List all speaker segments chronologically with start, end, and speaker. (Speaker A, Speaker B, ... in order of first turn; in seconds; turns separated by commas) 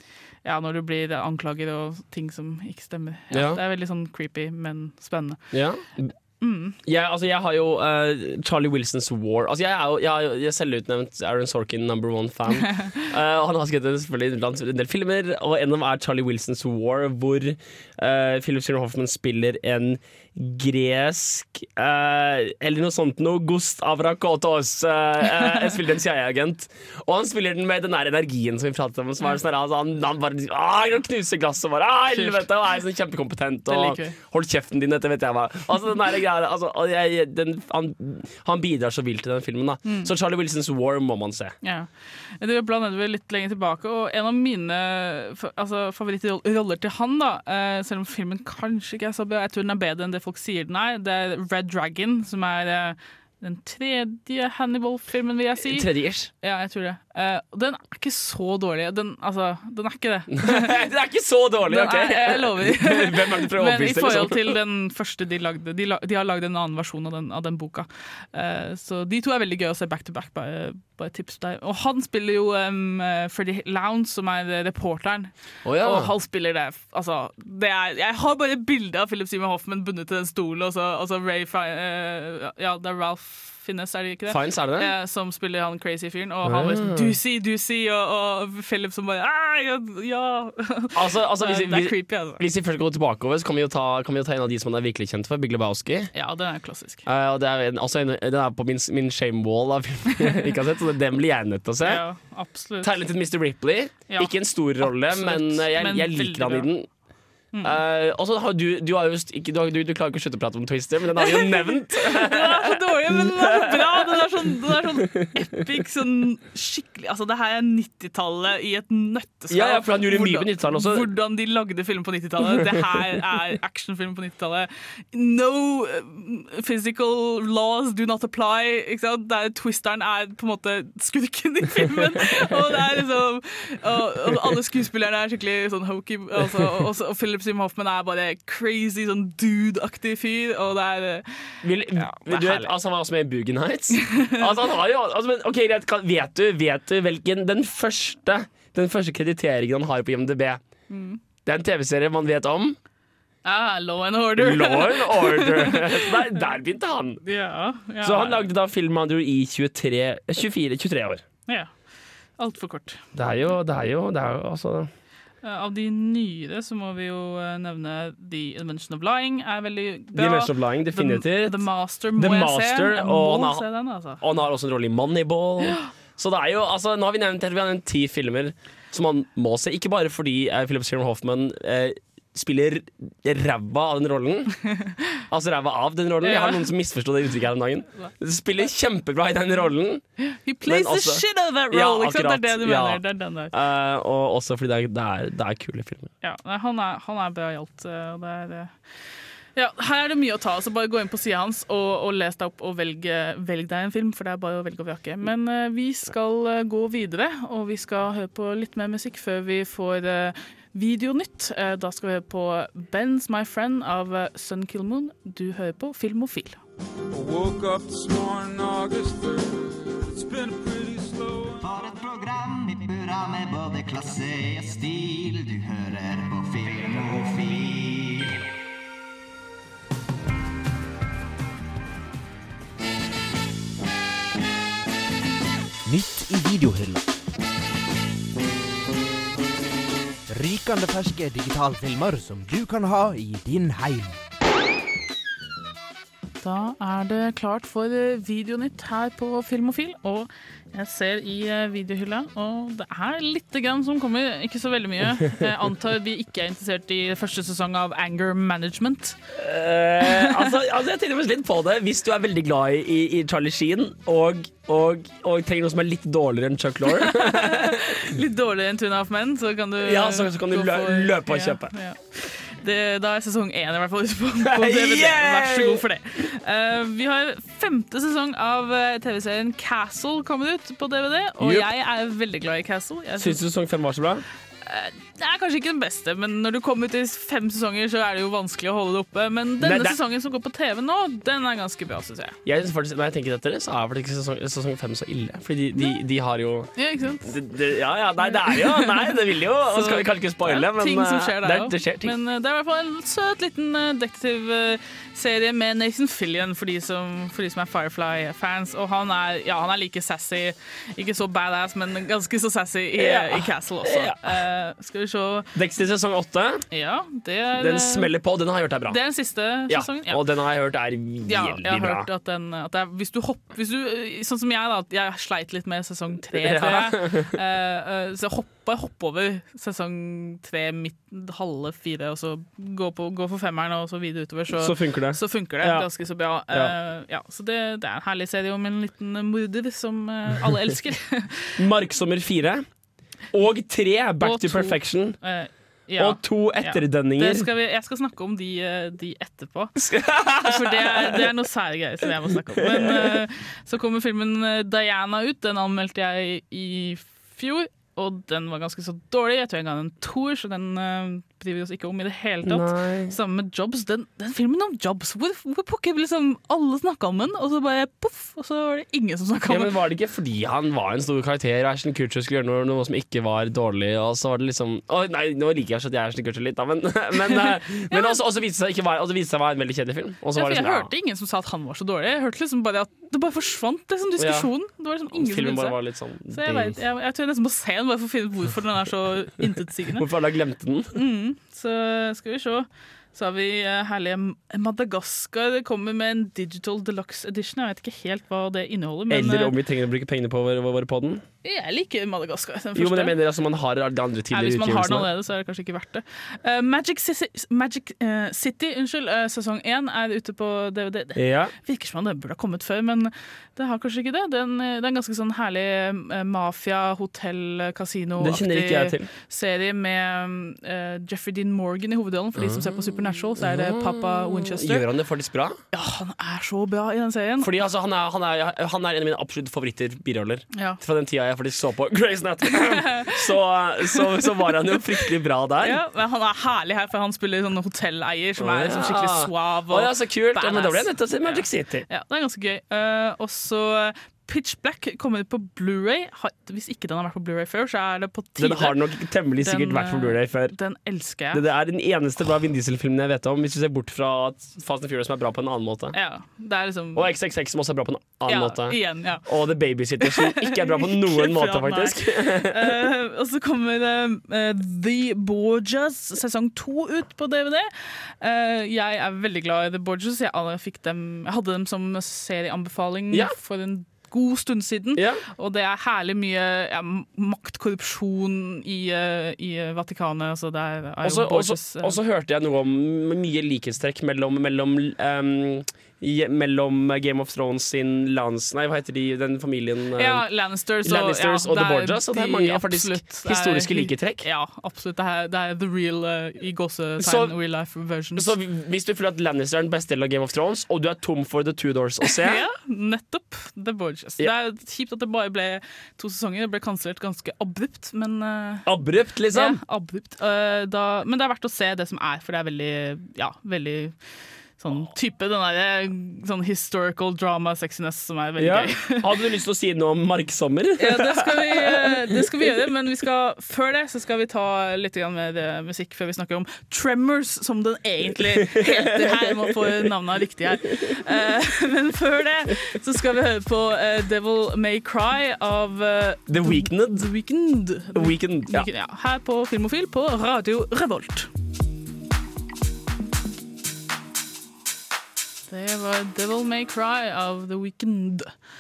Speaker A: 0.4-5.5, Speaker B: 3.3-3.6, Speaker B: 5.5-6.1, Speaker A: 6.4-6.8, Speaker B: 6.8-41.5, Speaker A: 12.7-13.1, Speaker A: 32.1-32.5, Speaker A: 33.7-34.2, Speaker A: 39.9-40.1, Speaker A: 41.6-60.8, Speaker B: 55.6-56.3, Speaker B: 60.3-64.6, Speaker A: 61.7-92.4, Speaker B: 75.6-76.1, Speaker B: 84.3-84.9, Speaker B: 86.4-87.2, Speaker B: 91.0-96.1, Speaker A: 96.1-97.1, Speaker B: 97.0-102.0, Speaker A: 101.8-103.0, Speaker B: 102.8-106.9, Speaker A: 104.1-106.7, Speaker A: 107.5-107.8, Speaker B: 107.6-115.3, Speaker A: 111.2-142.7, Speaker B: 119.5-121.1, Speaker B: 141.6-150.6, Speaker A: 144.0-144.5, Speaker A: 150.9-151.2, Speaker B: 151.4-152.8, Speaker A: 153.4-156.2, Speaker B: 154.4-157.2, Speaker A: 157.2-158.5, Speaker B: 158.0-161.2, Speaker A: 161.5-161.7, Speaker A: 162.4-163.0, Speaker B: 163.1-164.9, Speaker A: 165.4-174.2, Speaker B: 170.1-171.6, Speaker B: 172.2-173.7, Speaker B: 174.2-184.6, Speaker B: 185.3-190.1, Speaker A: 186.2-186.7, Speaker A: 190.2-193.5, Speaker B: 190.6-196.1, Speaker A: 196.2-198.7, Speaker A: 199.6-216.6, Speaker C: 217.2-219.4, Speaker C: 220.2-221.5, Speaker D: 221.6-228.4, Speaker E: 235.9-237.1, Speaker E: 240.3-244.2, Speaker A: 246.4-259.2, Speaker B: 259.3-268.1, Speaker A: 260.0-260.6, Speaker A: 266.9-283.4, Speaker B: 269.8-271.7, Speaker B: 274.4-275.8, Speaker B: 281.4-281.7, Speaker B: 283.2-284.2, Speaker A: 284.6-292.4, Speaker B: 289.6-290.0, Speaker B: 292.4-302.1, Speaker A: 296.8-297.4, Speaker A: 298.2-315.5, Speaker B: 312.9-314.4, Speaker B: 315.5-316.6, Speaker A: 316.7-318.1, Speaker B: 317.6-319.0, Speaker A: 318.9-320.2, Speaker B: 319.6-322.1, Speaker A: 321.2-341.6, Speaker B: 326.3-327.4, Speaker B: 334.5-335.9, Speaker B: 336.5-336.7, Speaker B: 341.6-342.7, Speaker B: 343.3-345.2, Speaker A: 344.2-349.8, Speaker B: 346.0-347.5, Speaker B: 349.8-351.3, Speaker A: 350.4-369.7, Speaker B: 352.6-353.2, Speaker B: 362.4-363.1, Speaker B: 369.5-380.9, Speaker A: 377.2-378.2, Speaker A: 380.3-385.8, Speaker B: 384.2-384.5, Speaker B: 385.1-386.8, Speaker A: 386.3-390.1, Speaker B: 390.0-390.9, Speaker A: 390.9-399.6, Speaker B: 399.1-401.2, Speaker A: 401.4-403.2, Speaker B: 402.8-405.1, Speaker A: 404.3-424.9, Speaker B: 411.1-411.5, Speaker B: 418.2-419.1, Speaker B: 422.4-425.6, Speaker A: 425.7-427.5, Speaker B: 427.4-435.8, Speaker A: 430.5-430.8, Speaker A: 432.5-433.3, Speaker A: 433.9-448.8, Speaker B: 438.4-441.9, Speaker B: 448.4-450.6, Speaker A: 449.4-451.4, Speaker B: 451.3-455.9, Speaker A: 455.9-457.1, Speaker B: 456.9-462.9, Speaker A: 458.3-459.3, Speaker A: 460.0-482.0, Speaker B: 473.1-473.4, Speaker B: 475.0-475.2, Speaker B: 481.0-490.3, Speaker A: 490.0-498.3, Speaker B: 490.8-494.3, Speaker B: 497.0-497.4, Speaker B: 498.2-502.4, Speaker A: 502.1-508.7, Speaker B: 508.7-509.6, Speaker A: 509.3-514.0, Speaker A: 514.6-519.0, Speaker B: 518.4-522.4, Speaker A: 520.8-541.3, Speaker B: 528.2-529.9, Speaker B: 536.3-537.1, Speaker B: 537.9-538.7, Speaker A: 545.5-548.3